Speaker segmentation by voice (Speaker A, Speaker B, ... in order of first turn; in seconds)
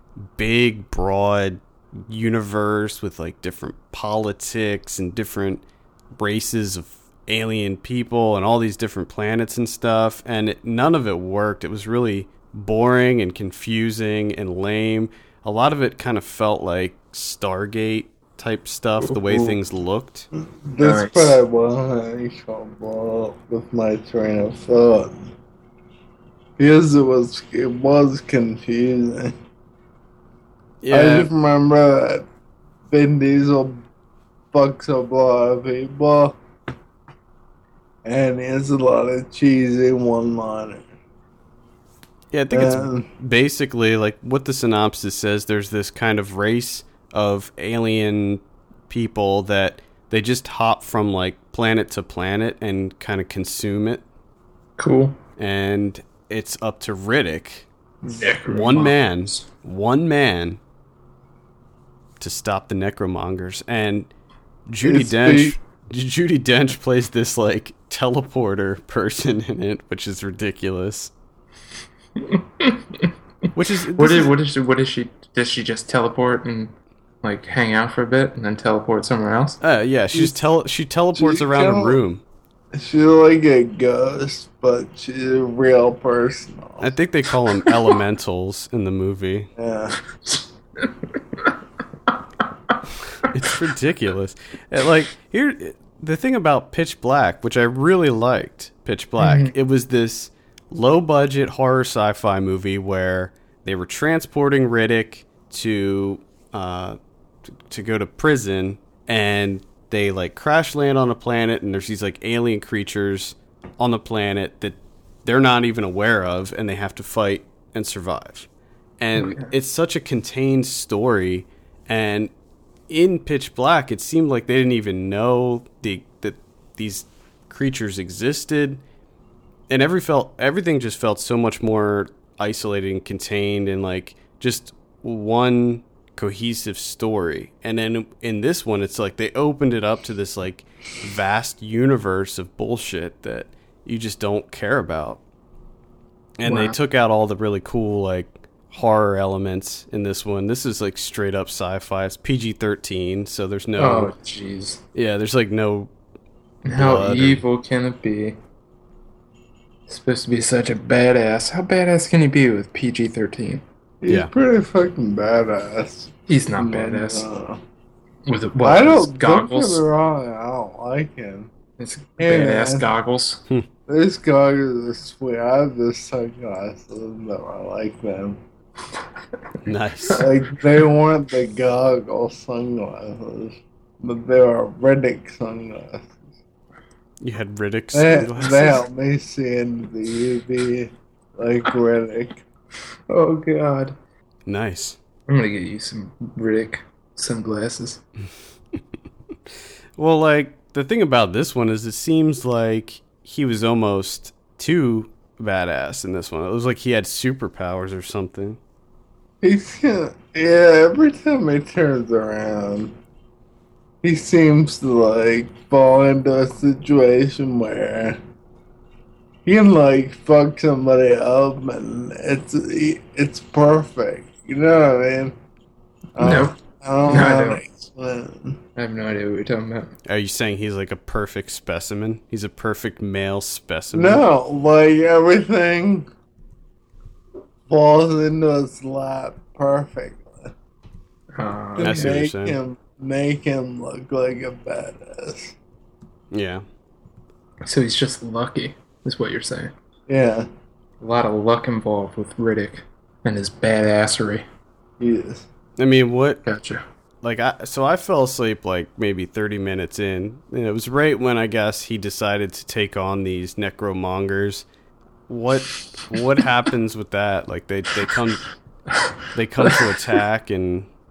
Speaker A: 0.3-20.3, 30.8-31.3, 42.3-54.0, 55.4-57.7, 58.5-60.6, 62.2-64.1, 64.7-71.1, 73.5-74.4, 79.6-82.2, 86.8-89.5, 93.3-107.0, 107.7-118.5, 119.0-122.3, 122.9-128.8, 129.7-145.2, 146.4-154.1, 154.9-155.9, 156.7-157.4, 179.6-180.2, 187.2-188.8, 194.4-195.0, 200.0-208.6, 230.1-234.3, 241.8-242.6, 246.3-246.6, 255.8-256.4, 257.2-264.7, 265.3-268.5, 269.3-270.9
Speaker B: 19.0-19.6, 20.8-21.4, 54.8-55.2, 58.1-59.4, 72.2-73.1, 74.0-79.6, 90.2-91.5, 99.2-99.5, 119.2-119.5, 146.4-146.8, 153.8-154.8, 156.6-158.4, 159.9-163.6, 166.3-167.3, 168.2-169.8, 171.8-173.4, 193.1-193.9, 195.3-198.0, 226.2-226.5, 227.1-227.6, 228.8-229.9, 241.4-242.2, 247.6-249.7, 251.0-254.4, 256.4-256.8
Speaker C: 20.3-25.3, 26.6-29.3, 30.9-32.2, 32.9-33.8, 34.5-36.4, 38.0-40.9, 42.5-43.1, 64.8-65.6, 81.1-82.0, 82.8-86.9, 89.6-90.0, 164.0-167.6, 168.6-171.5, 172.2-172.9, 173.9-178.4, 180.2-186.2, 187.9-192.4, 209.4-212.9, 214.0-218.2, 219.4-225.3, 226.2-228.6, 233.9-236.1, 237.7-240.5, 241.8-245.6, 250.1-250.4, 255.0-255.4